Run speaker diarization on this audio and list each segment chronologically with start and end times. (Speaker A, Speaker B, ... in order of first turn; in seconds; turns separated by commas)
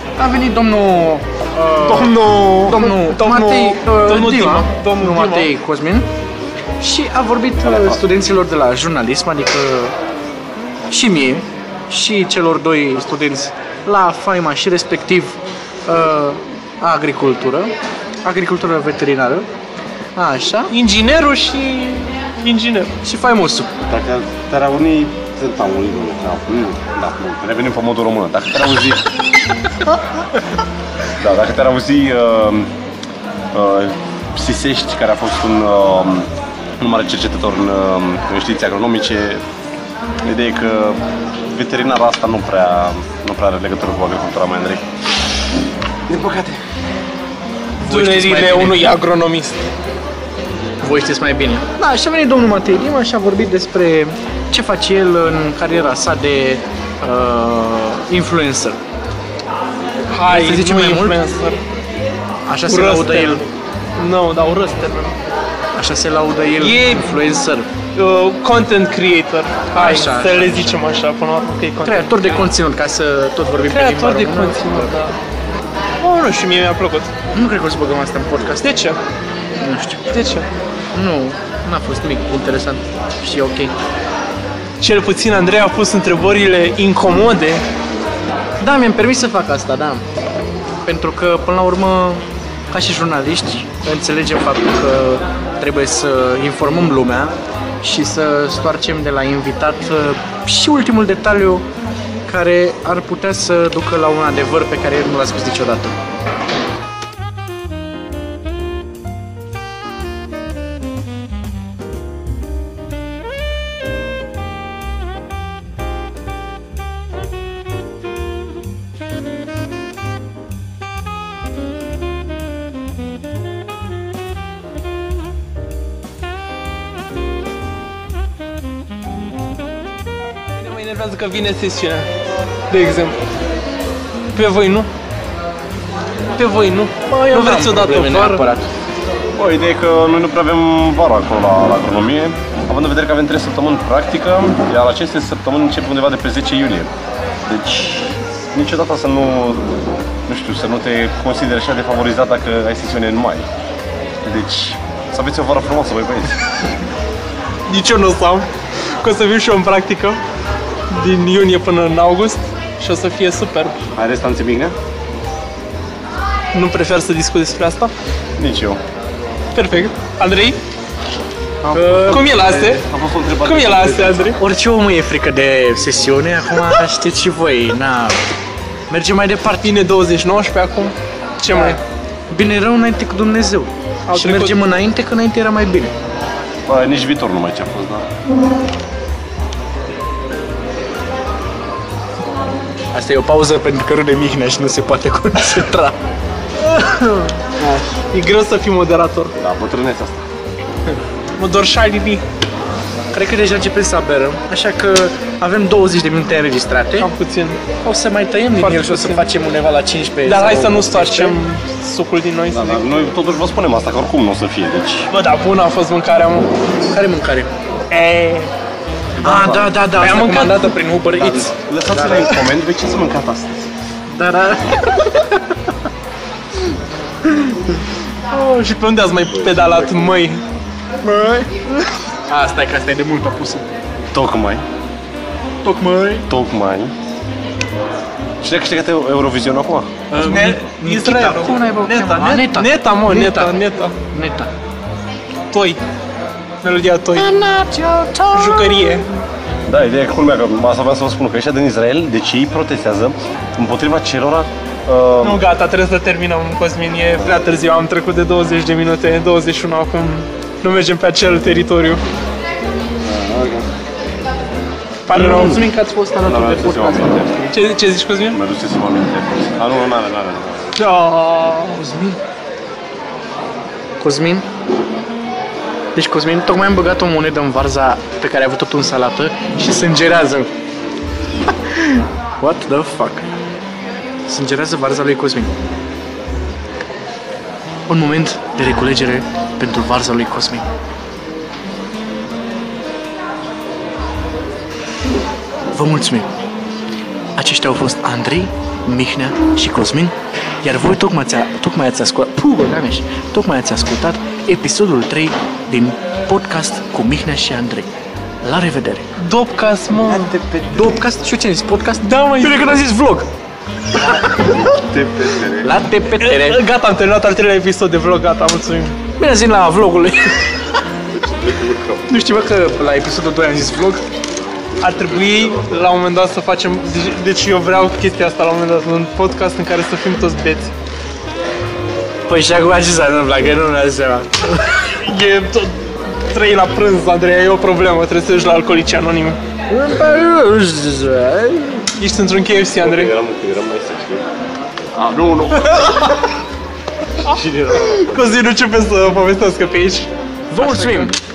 Speaker A: 0.2-6.1, Speaker B: 1.8-5.5, Speaker A: 6.8-9.9, Speaker A: 10.9-17.7, Speaker A: 18.2-19.5, Speaker A: 20.2-20.7, Speaker B: 20.7-22.9, Speaker A: 23.0-23.7, Speaker C: 23.9-29.1, Speaker C: 31.1-32.7, Speaker C: 33.5-39.4, Speaker C: 40.2-44.9, Speaker C: 46.1-46.6, Speaker B: 47.8-49.6, Speaker A: 47.9-48.9, Speaker A: 50.8-58.8, Speaker B: 60.1-61.6, Speaker A: 60.3-61.2, Speaker A: 62.5-63.4, Speaker B: 62.7-65.2, Speaker A: 65.8-67.7, Speaker B: 66.6-67.2, Speaker B: 68.0-72.2, Speaker A: 69.8-70.8, Speaker A: 71.8-74.9, Speaker B: 73.7-75.2, Speaker B: 76.0-77.1, Speaker A: 77.3-78.7, Speaker B: 78.6-79.0, Speaker A: 79.6-80.0, Speaker B: 80.1-80.5, Speaker A: 80.9-83.7, Speaker B: 84.8-87.6, Speaker A: 88.6-90.0, Speaker A: 90.8-101.7, Speaker A: 102.3-106.0, Speaker B: 130.6-132.1, Speaker B: 132.7-133.2, Speaker B: 134.3-134.9, Speaker B: 136.4-138.5, Speaker A: 137.1-138.7, Speaker C: 139.4-146.9, Speaker C: 147.5-149.7, Speaker C: 150.3-153.5, Speaker C: 154.2-156.7, Speaker B: 157.7-158.5, Speaker B: 159.0-160.2, Speaker B: 160.9-163.8, Speaker C: 163.9-164.8, Speaker B: 166.5-167.9, Speaker C: 168.4-168.8, Speaker B: 169.5-170.6, Speaker C: 171.6-174.4, Speaker A: 171.7-172.3, Speaker B: 172.1-172.8, Speaker B: 173.4-174.4, Speaker A: 174.4-178.2, Speaker A: 178.9-179.8, Speaker B: 179.6-181.8, Speaker A: 181.5-181.8, Speaker A: 182.3-185.9, Speaker B: 184.1-184.6, Speaker C: 186.7-188.1, Speaker A: 192.9-195.9, Speaker B: 196.7-199.3, Speaker C: 199.4-200.3, Speaker B: 201.4-202.2, Speaker A: 203.1-207.1, Speaker B: 207.0-207.6, Speaker A: 207.8-211.4, Speaker B: 208.6-209.3, Speaker B: 210.3-213.1, Speaker C: 212.5-215.1, Speaker B: 215.1-216.6, Speaker A: 216.9-217.5, Speaker B: 217.9-218.5, Speaker C: 219.2-219.7, Speaker A: 219.2-222.4, Speaker B: 220.0-220.8, Speaker C: 221.2-223.7, Speaker A: 224.1-225.4, Speaker A: 227.2-227.8, Speaker B: 228.3-230.4, Speaker A: 231.0-233.7, Speaker C: 234.1-234.7, Speaker A: 235.6-236.3, Speaker C: 236.3-236.9, Speaker C: 238.4-239.9, Speaker A: 240.1-244.5, Speaker B: 240.2-243.9, Speaker B: 245.5-245.8, Speaker B: 246.6-247.3, Speaker A: 247.2-249.0, Speaker B: 248.3-249.1, Speaker C: 249.7-255.4, Speaker B: 255.2-262.0, Speaker C: 263.0-263.7, Speaker B: 265.1-265.7, Speaker A: 265.1-267.6, Speaker C: 265.2-265.7, Speaker C: 266.2-267.4, Speaker B: 267.5-268.4, Speaker C: 268.3-270.8, Speaker B: 270.8-271.8, Speaker A: 271.8-272.2, Speaker A: 274.0-274.4, Speaker A: 275.9-280.5, Speaker A: 281.5-283.3, Speaker A: 284.3-285.5, Speaker A: 287.9-290.6, Speaker A: 295.7-296.3, Speaker A: 297.4-307.9, Speaker A: 308.4-309.1, Speaker B: 309.2-310.3, Speaker C: 310.0-311.0, Speaker A: 310.7-313.3, Speaker B: 312.0-312.8, Speaker A: 313.9-314.6, Speaker C: 314.0-315.8, Speaker A: 315.6-316.6, Speaker B: 316.2-319.0, Speaker A: 319.2-320.8, Speaker C: 321.1-322.2, Speaker A: 322.1-324.0, Speaker B: 324.8-330.7, Speaker A: 332.3-334.8, Speaker B: 334.9-339.4, Speaker A: 339.7-341.9, Speaker B: 342.0-343.1, Speaker C: 342.8-344.3, Speaker C: 344.9-346.2, Speaker C: 347.2-348.1, Speaker B: 347.7-351.1, Speaker A: 350.5-351.1